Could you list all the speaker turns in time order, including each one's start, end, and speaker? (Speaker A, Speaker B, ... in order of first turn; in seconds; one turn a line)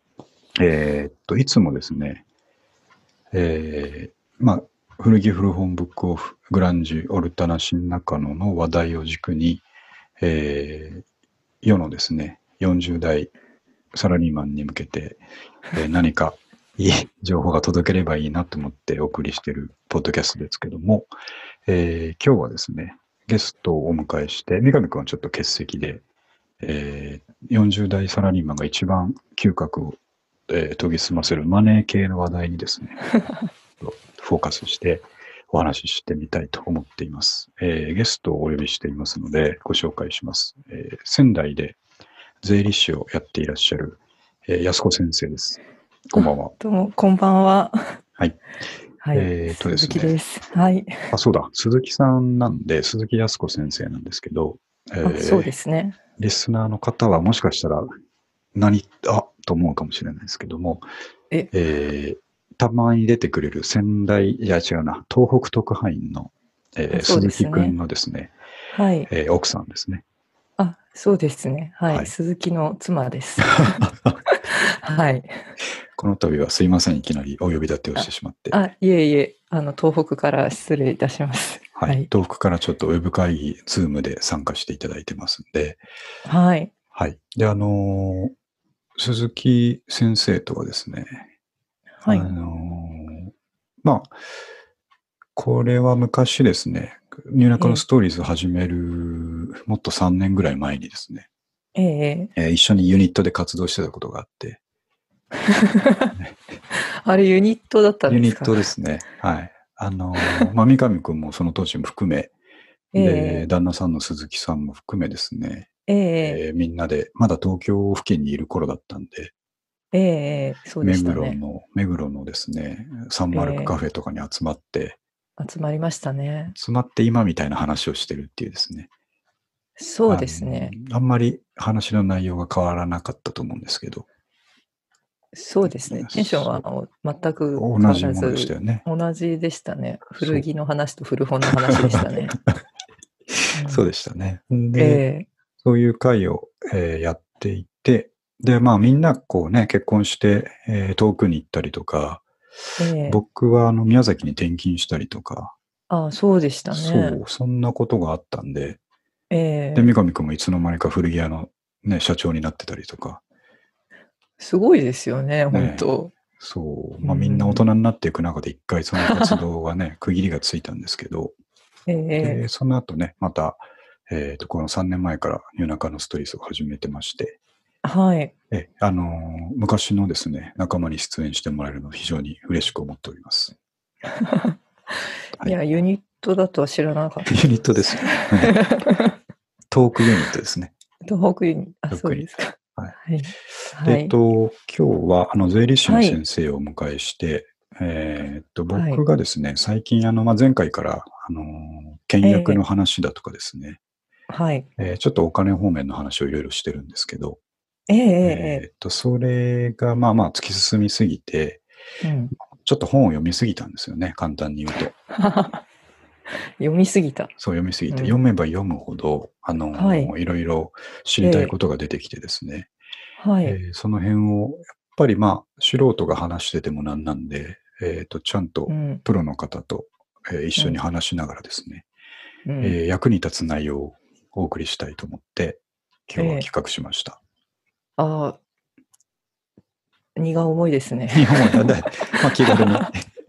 Speaker A: 0.6-2.2
Speaker A: 3.3-9.6
Speaker A: 10.2-11.0
Speaker A: 11.6-13.3
Speaker A: 13.9-15.2
Speaker A: 15.7-21.1
Speaker A: 21.7-26.0
Speaker A: 26.6-33.0
Speaker A: 33.8-41.8
Speaker A: 42.4-45.6
Speaker A: 46.1-46.5
Speaker B: 46.2-48.0
Speaker B: 49.0-51.1
Speaker A: 49.1-50.2
Speaker A: 51.1-55.5
Speaker B: 55.0-56.0
Speaker A: 56.2-57.9
Speaker A: 58.5-60.8
Speaker A: 61.5-68.3
Speaker B: 66.9-67.8
Speaker B: 68.7-69.1
Speaker A: 69.1-70.0
Speaker B: 70.6-75.3
Speaker A: 73.5-74.2
Speaker A: 76.0-78.6
Speaker B: 78.0-82.1
Speaker A: 81.8-85.8
Speaker B: 86.2-86.7
Speaker A: 86.9-88.3
Speaker A: 89.0-91.3
Speaker B: 92.0-92.3
Speaker A: 92.0-93.3
Speaker A: 93.8-94.2
Speaker A: 95.4-101.3
Speaker B: 97.6-97.8
Speaker B: 101.8-102.3
Speaker A: 102.4-104.6
Speaker B: 105.5-106.2
Speaker B: 106.8-108.7
Speaker A: 108.1-112.3
Speaker B: 110.2-110.5
Speaker B: 112.9-113.5
Speaker A: 113.0-115.7
Speaker B: 115.9-116.4
Speaker A: 116.2-119.3
Speaker B: 119.9-121.4
Speaker A: 120.8-125.0
Speaker B: 123.3-123.8
Speaker B: 125.4-126.5
Speaker A: 126.5-128.9
Speaker B: 129.8-130.8
Speaker A: 130.1-134.1
Speaker B: 135.3-142.3
Speaker A: 135.8-136.6
Speaker A: 137.5-138.8
Speaker A: 140.2-140.5
Speaker A: 141.4-142.6
Speaker A: 143.3-145.0
Speaker B: 143.5-143.9
Speaker B: 144.8-145.3
Speaker A: 145.6-152.2
Speaker B: 152.8-153.2
Speaker A: 153.1-155.6
Speaker B: 155.9-157.2
Speaker A: 156.7-158.8
Speaker B: 159.3-159.9
Speaker A: 159.8-163.2
Speaker B: 164.4-166.1
Speaker A: 165.5-165.9
Speaker A: 166.4-171.3
Speaker B: 167.0-167.6
Speaker B: 169.0-169.4
Speaker B: 171.9-172.4
Speaker A: 172.2-177.4
Speaker B: 177.8-178.3
Speaker A: 178.5-183.6
Speaker B: 184.1-184.6
Speaker B: 185.4-187.3
Speaker A: 187.2-188.6
Speaker B: 188.0-189.2
Speaker A: 189.7-190.7
Speaker B: 191.1-194.1
Speaker A: 191.9-192.9
Speaker A: 193.7-203.8
Speaker B: 195.8-196.2
Speaker B: 198.7-199.0
Speaker B: 202.2-202.6
Speaker B: 204.3-204.7
Speaker A: 204.8-207.4
Speaker B: 207.9-208.6
Speaker A: 208.2-211.6
Speaker B: 212.0-212.3
Speaker A: 212.5-214.9
Speaker B: 215.1-215.6
Speaker B: 216.6-217.3
Speaker A: 217.4-222.7
Speaker B: 219.7-220.1
Speaker B: 221.2-221.5
Speaker B: 223.2-223.6
Speaker A: 223.4-231.9
Speaker B: 228.7-229.0
Speaker B: 232.5-232.8
Speaker A: 232.6-237.2
Speaker B: 236.2-236.5
Speaker B: 238.0-238.4
Speaker B: 240.2-242.9
Speaker A: 241.1-243.1